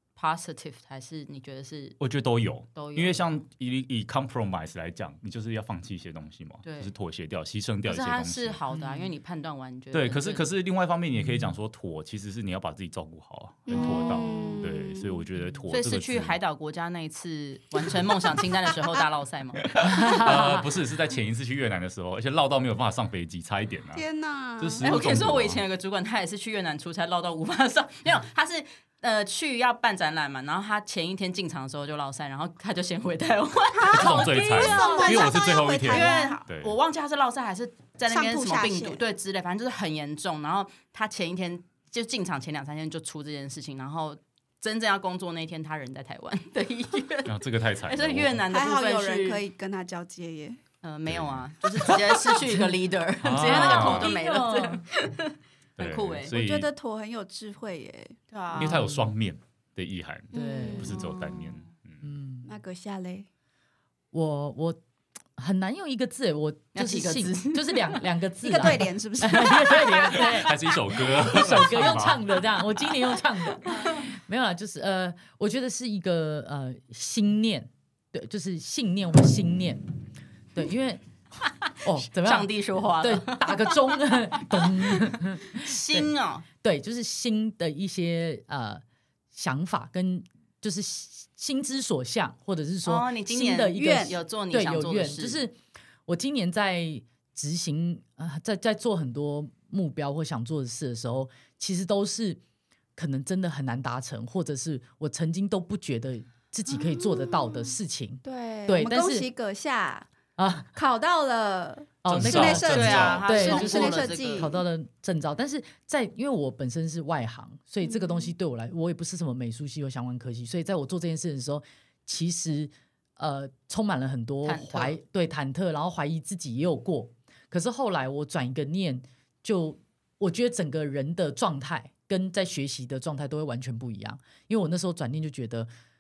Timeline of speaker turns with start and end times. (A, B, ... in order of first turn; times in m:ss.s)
0:00.2-0:02.0 A
0:02.0-0:08.6 B
0:02.7-0:03.3 A
0:06.6-0:06.9 A
0:07.8-0:10.4 A
0:08.7-0:09.1 C
0:09.9-0:16.4 B
0:11.1-0:11.6 C
0:13.7-0:15.2 D
0:13.8-0:14.5 A
0:15.7-0:20.6 A
0:19.6-0:24.0 B
0:19.8-0:20.6 C
0:23.9-0:24.9 D
0:24.6-0:25.6 B
0:24.8-0:49.4 A
0:33.7-0:36.4 D
0:33.9-0:36.8 B
0:38.1-0:39.0 D
0:47.2-0:48.4 B
0:48.5-0:50.6 D
0:50.8-0:56.3 A
0:51.1-0:52.0 B
0:53.2-0:54.1 B
0:53.4-0:54.8 C
0:55.8-0:56.7 B
0:56.3-0:58.2 D
0:58.3-0:58.8 A
0:58.6-1:02.0 B
0:58.6-0:59.1 C
1:00.3-1:00.9 C
1:00.3-1:01.0 D
1:00.8-1:01.6 A
1:02.0-1:02.5 C
1:02.4-1:03.3 D
1:04.1-1:04.8 C
1:05.4-1:19.8 C
1:06.7-1:08.0 A
1:08.4-1:10.0 D
1:10.3-1:12.2 B
1:20.5-1:21.0 C
1:21.8-1:28.8 C
1:22.2-1:26.4 A
1:29.3-1:42.4 C
1:32.8-1:35.4 A
1:33.7-1:34.2 D
1:43.0-1:49.3 C
1:46.7-1:47.7 D
1:48.2-1:50.1 D
1:50.4-1:50.7 C
1:50.7-1:54.6 D
1:52.0-1:52.7 C
1:52.1-1:53.4 B
1:52.6-1:54.5 A
1:53.2-2:15.7 C
1:57.8-1:58.3 D
2:04.4-2:05.0 A